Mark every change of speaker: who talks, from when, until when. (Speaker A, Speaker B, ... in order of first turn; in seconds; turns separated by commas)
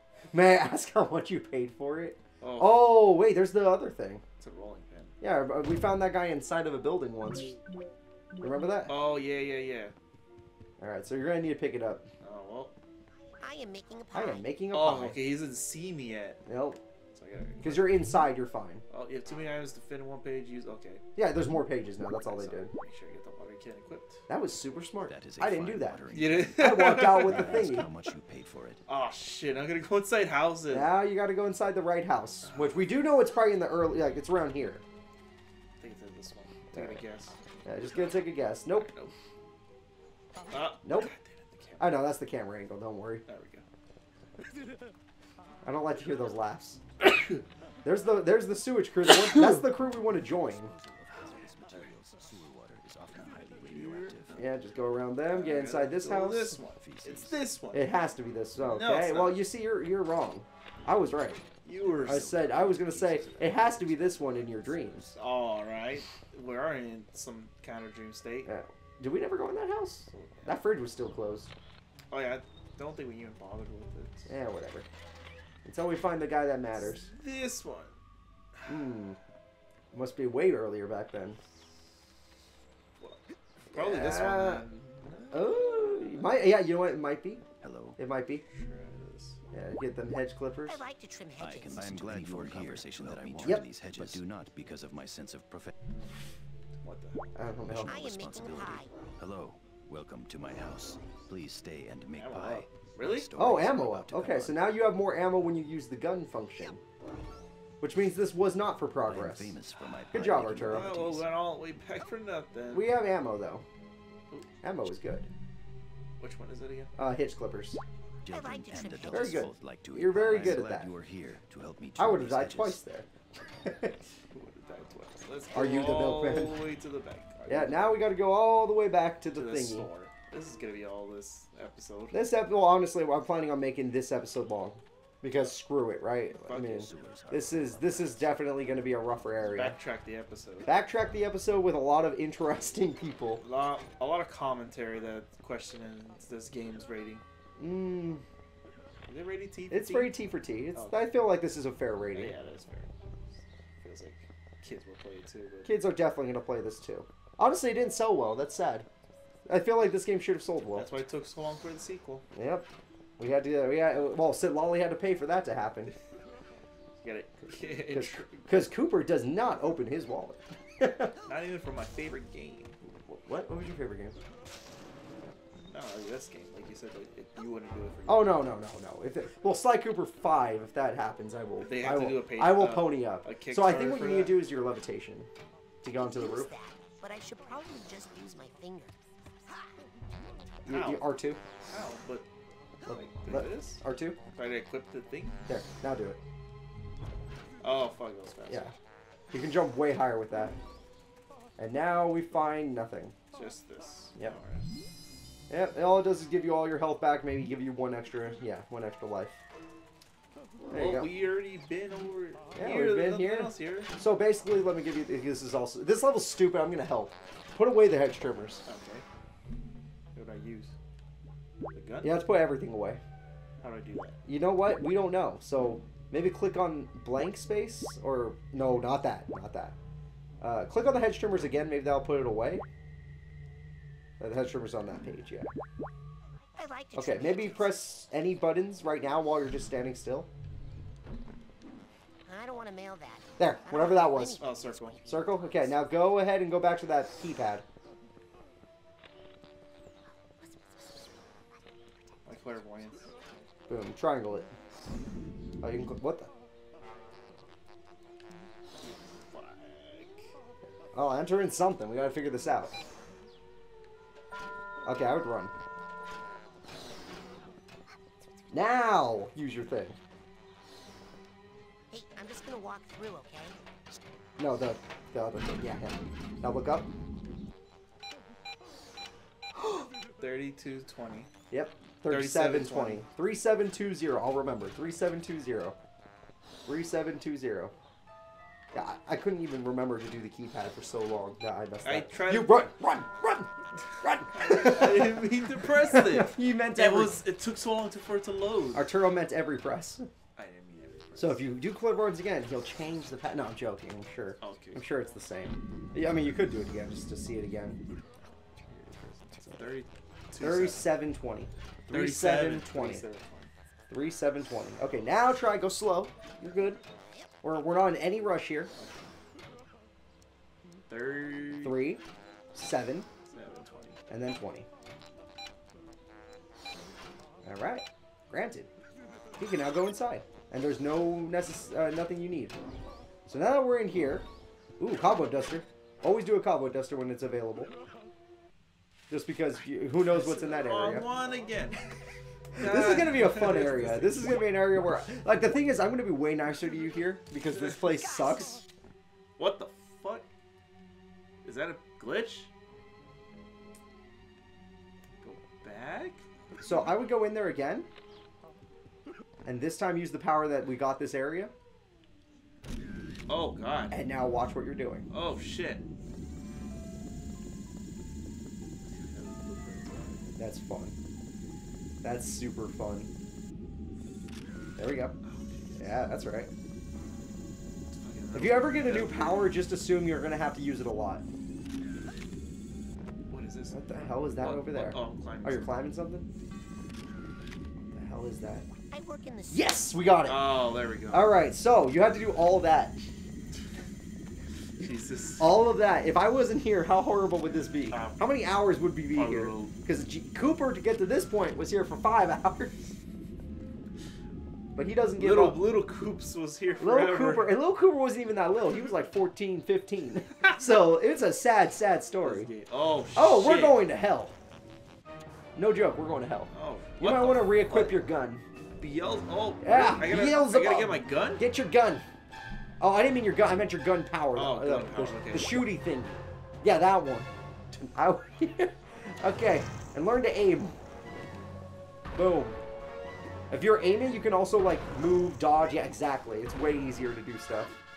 Speaker A: 0.3-4.2, Speaker B: 2.4-3.0, Speaker B: 4.4-5.2, Speaker A: 5.2-7.6, Speaker A: 8.4-9.0, Speaker B: 8.9-9.9, Speaker A: 10.8-12.1, Speaker B: 12.2-12.7, Speaker C: 13.4-14.4, Speaker A: 14.1-15.2, Speaker B: 14.7-16.4, Speaker A: 16.5-16.8, Speaker B: 17.1-18.0, Speaker A: 17.6-18.8, Speaker B: 18.9-21.0, Speaker A: 21.2-22.7, Speaker B: 22.2-24.2, Speaker A: 24.3-26.0, Speaker D: 25.1-28.8, Speaker B: 26.1-27.9, Speaker A: 26.6-27.9, Speaker B: 28.9-30.9, Speaker A: 30.7-34.8, Speaker B: 32.4-32.9, Speaker B: 35.8-37.4, Speaker A: 36.7-37.0, Speaker A: 37.6-38.9, Speaker B: 38.7-39.1, Speaker B: 40.5-42.0, Speaker A: 40.8-41.1, Speaker A: 41.8-43.2, Speaker B: 43.3-43.6, Speaker A: 45.6-46.8, Speaker A: 47.8-50.7, Speaker D: 50.0-54.5, Speaker B: 53.1-54.2, Speaker A: 54.4-56.6, Speaker B: 55.3-57.9, Speaker D: 56.7-57.5, Speaker A: 57.7-61.4, Speaker B: 58.6-59.5, Speaker B: 61.6-62.4, Speaker D: 61.7-65.1, Speaker A: 62.0-65.2, Speaker B: 65.2-68.5, Speaker A: 68.5-71.5, Speaker B: 70.1-70.6, Speaker B: 72.1-74.3, Speaker A: 74.3-74.9, Speaker A: 75.7-77.1, Speaker B: 76.8-78.0, Speaker A: 78.7-79.2, Speaker A: 79.9-81.4, Speaker B: 83.0-86.4, Speaker A: 83.7-84.7, Speaker A: 85.3-87.4, Speaker D: 87.6-88.0, Speaker A: 88.0-88.4, Speaker B: 88.5-89.4, Speaker A: 89.5-90.8, Speaker C: 90.7-93.3, Speaker D: 91.4-95.7, Speaker A: 93.4-94.1, Speaker B: 96.8-97.4, Speaker A: 97.4-98.0, Speaker D: 97.7-104.7, Speaker C: 97.9-98.9, Speaker B: 102.2-103.3, Speaker A: 103.4-106.8, Speaker A: 107.8-109.5, Speaker D: 109.1-111.3, Speaker A: 110.1-110.9, Speaker B: 110.7-112.9, Speaker A: 112.7-113.6, Speaker A: 114.6-115.3, Speaker B: 116.2-116.9, Speaker A: 117.0-117.8, Speaker C: 118.3-119.5, Speaker D: 118.3-122.8, Speaker A: 119.1-120.9, Speaker A: 122.0-124.0, Speaker B: 124.3-128.0, Speaker A: 125.5-126.7, Speaker A: 127.5-129.9, Speaker B: 129.3-132.2, Speaker A: 132.1-139.8, Speaker B: 136.4-136.9, Speaker D: 136.5-138.4, Speaker B: 139.5-140.8, Speaker A: 140.7-143.4, Speaker B: 143.4-147.2, Speaker A: 147.6-148.2, Speaker B: 149.1-150.1, Speaker A: 149.7-152.4, Speaker B: 150.7-151.0, Speaker B: 152.1-152.9, Speaker B: 153.8-155.7, Speaker A: 155.7-158.9, Speaker A: 159.5-160.9, Speaker B: 160.8-162.2, Speaker A: 162.3-162.7, Speaker A: 163.2-165.9, Speaker B: 167.0-168.6, Speaker A: 167.5-171.1, Speaker B: 171.3-172.8, Speaker A: 173.0-174.2, Speaker B: 175.6-178.4, Speaker A: 178.1-185.3, Speaker B: 181.6-184.4, Speaker A: 185.8-186.5, Speaker C: 186.0-188.9, Speaker A: 190.7-191.4, Speaker B: 190.7-191.1, Speaker B: 191.7-192.3, Speaker A: 192.9-194.2, Speaker B: 192.9-193.8, Speaker B: 194.3-195.4, Speaker A: 195.5-196.2, Speaker B: 197.6-198.7, Speaker A: 198.5-198.7, Speaker A: 199.3-200.6, Speaker A: 201.6-203.2, Speaker B: 203.3-204.7, Speaker A: 205.5-209.4, Speaker A: 210.7-211.1, Speaker B: 210.7-213.9, Speaker A: 212.6-218.7, Speaker B: 218.7-219.1, Speaker B: 220.1-220.8, Speaker B: 221.7-222.2, Speaker A: 222.0-223.0, Speaker B: 223.6-224.2, Speaker A: 224.3-229.8, Speaker A: 230.4-232.6, Speaker A: 234.2-235.5, Speaker C: 236.6-237.8, Speaker A: 236.9-240.3, Speaker C: 242.3-245.8, Speaker A: 243.4-244.4, Speaker B: 244.4-245.0, Speaker A: 245.1-247.6, Speaker B: 252.2-253.1, Speaker A: 253.7-254.5, Speaker A: 255.6-256.3, Speaker B: 258.8-260.3, Speaker A: 260.9-262.8, Speaker A: 264.9-265.5, Speaker A: 268.5-270.0, Speaker C: 271.9-273.6, Speaker A: 274.4-276.9, Speaker A: 279.6-279.9, Speaker B: 280.2-281.3, Speaker A: 281.5-285.8, Speaker B: 282.1-283.1, Speaker A: 286.7-287.7, Speaker A: 288.7-297.2, Speaker B: 291.8-292.7, Speaker B: 294.3-298.9, Speaker A: 298.7-300.1, Speaker B: 300.4-301.5, Speaker A: 301.2-307.8, Speaker B: 304.4-304.9, Speaker B: 308.5-310.9, Speaker A: 310.4-313.1, Speaker B: 311.9-313.5, Speaker A: 313.9-316.8, Speaker A: 317.4-318.7, Speaker B: 320.9-321.9, Speaker A: 321.6-322.0, Speaker A: 322.6-323.1, Speaker B: 323.3-324.0, Speaker A: 324.1-324.7, Speaker A: 327.4-328.7, Speaker A: 329.4-332.6, Speaker A: 333.3-334.3, Speaker A: 334.8-337.7, Speaker A: 339.1-341.1, Speaker B: 340.0-341.8, Speaker B: 342.6-344.4, Speaker A: 342.6-348.6, Speaker B: 349.4-350.3, Speaker B: 351.4-352.5, Speaker B: 355.2-356.8, Speaker A: 356.6-357.9, Speaker A: 359.4-361.5, Speaker B: 363.3-364.0, Speaker A: 363.9-365.1, Speaker B: 365.1-365.8, Speaker B: 368.9-370.3, Speaker A: 370.4-370.9, Speaker A: 372.0-373.1, Speaker A: 374.8-375.2, Speaker B: 375.2-375.9, Speaker A: 375.8-376.5, Speaker B: 377.9-379.5, Speaker A: 378.3-381.2, Speaker B: 383.3-385.7, Speaker A: 383.7-386.3, Speaker A: 387.9-388.7, Speaker C: 388.9-389.8, Speaker A: 389.5-390.6, Speaker B: 390.3-391.4, Speaker A: 391.1-393.0, Speaker B: 394.8-395.6, Speaker A: 395.4-402.8, Speaker B: 397.9-398.2, Speaker B: 399.1-399.8, Speaker A: 404.8-405.6, Speaker B: 405.2-407.6, Speaker A: 406.8-412.5, Speaker B: 412.2-413.8, Speaker A: 413.2-414.4, Speaker A: 415.6-418.4, Speaker B: 416.5-418.0, Speaker B: 418.8-421.4, Speaker A: 419.6-422.0, Speaker A: 422.8-430.8, Speaker B: 424.4-425.7, Speaker A: 432.1-432.6, Speaker A: 433.5-437.8